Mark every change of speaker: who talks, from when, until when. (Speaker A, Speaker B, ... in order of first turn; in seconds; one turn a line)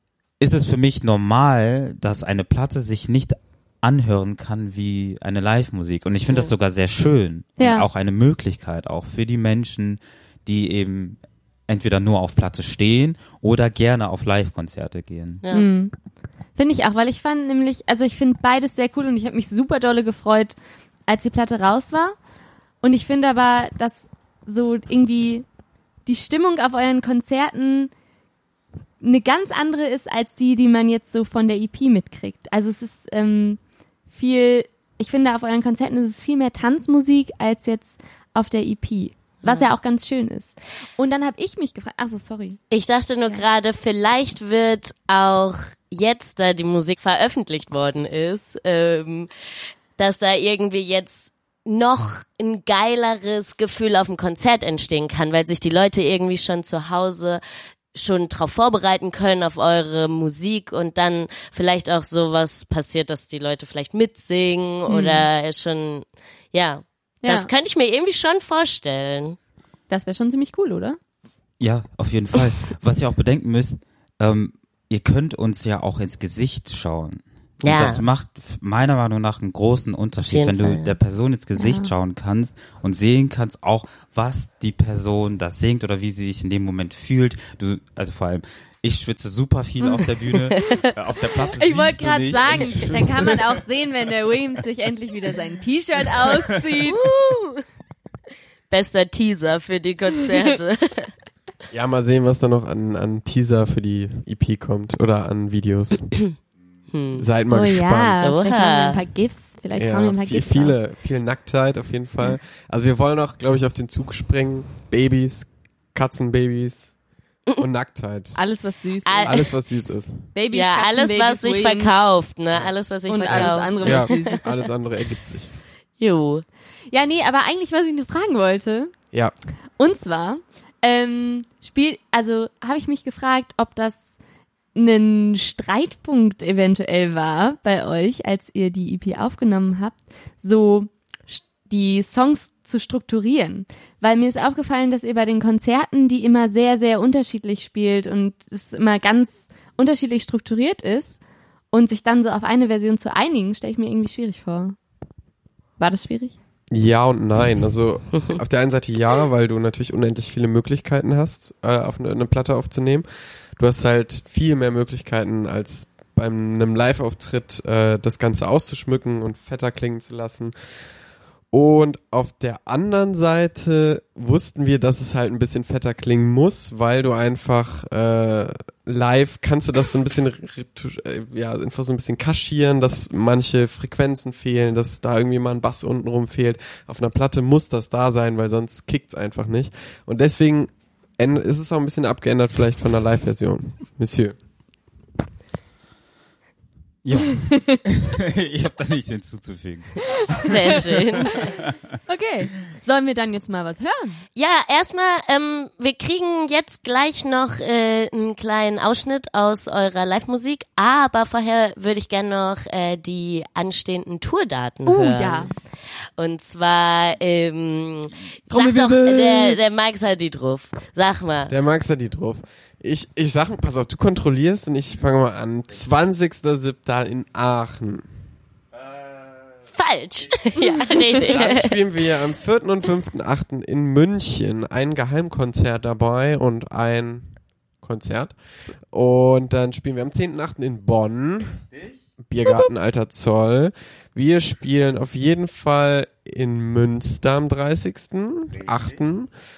Speaker A: 0.4-15.4
Speaker B: 7.6-7.8
Speaker C: 15.4-15.7
Speaker B: 15.5-15.9
Speaker B: 16.6-20.6
Speaker B: 21.1-22.1
Speaker B: 22.8-25.4
Speaker B: 26.1-27.9
Speaker B: 29.0-42.6
Speaker C: 42.7-49.3
Speaker C: 50.0-57.4
Speaker C: 57.9-69.4
Speaker B: 64.9-65.3
Speaker B: 67.2-67.5
Speaker B: 69.9-71.0
Speaker A: 71.6-93.6
Speaker C: 77.6-78.0
Speaker C: 80.3-81.0
Speaker B: 81.6-81.9
Speaker C: 89.8-90.9
Speaker B: 91.5-97.0
Speaker C: 96.8-97.6
Speaker C: 98.7-101.1
Speaker D: 101.7-106.1
Speaker C: 106.9-107.3
Speaker D: 107.2-108.2
Speaker B: 107.5-110.8
Speaker C: 108.2-109.0
Speaker D: 109.7-116.9
Speaker D: 117.6-118.4
Speaker B: 118.3-119.5
Speaker C: 119.0-119.5
Speaker D: 119.2-120.3
Speaker B: 120.3-121.9
Speaker C: 120.5-124.4
Speaker B: 123.1-124.4
Speaker D: 123.2-125.5
Speaker C: 126.0-126.4
Speaker B: 126.9-128.9
Speaker B: 129.8-134.1
Speaker B: 134.7-151.2
Speaker B: 151.7-154.8
Speaker B: 155.8-156.4
Speaker D: 156.7-163.1
Speaker D: 163.6-170.5
Speaker D: 171.5-194.3
Speaker A: 197.0-201.6
Speaker C: 200.3-201.5
Speaker B: 202.1-204.2
Speaker C: 204.3-215.5
Speaker B: 214.8-215.5
Speaker C: 216.2-221.5
Speaker B: 218.5-219.6
Speaker D: 221.5-228.1
Speaker C: 229.7-231.8
Speaker B: 230.6-231.2
Speaker D: 231.3-238.3
Speaker D: 238.9-241.7
Speaker D: 242.2-249.3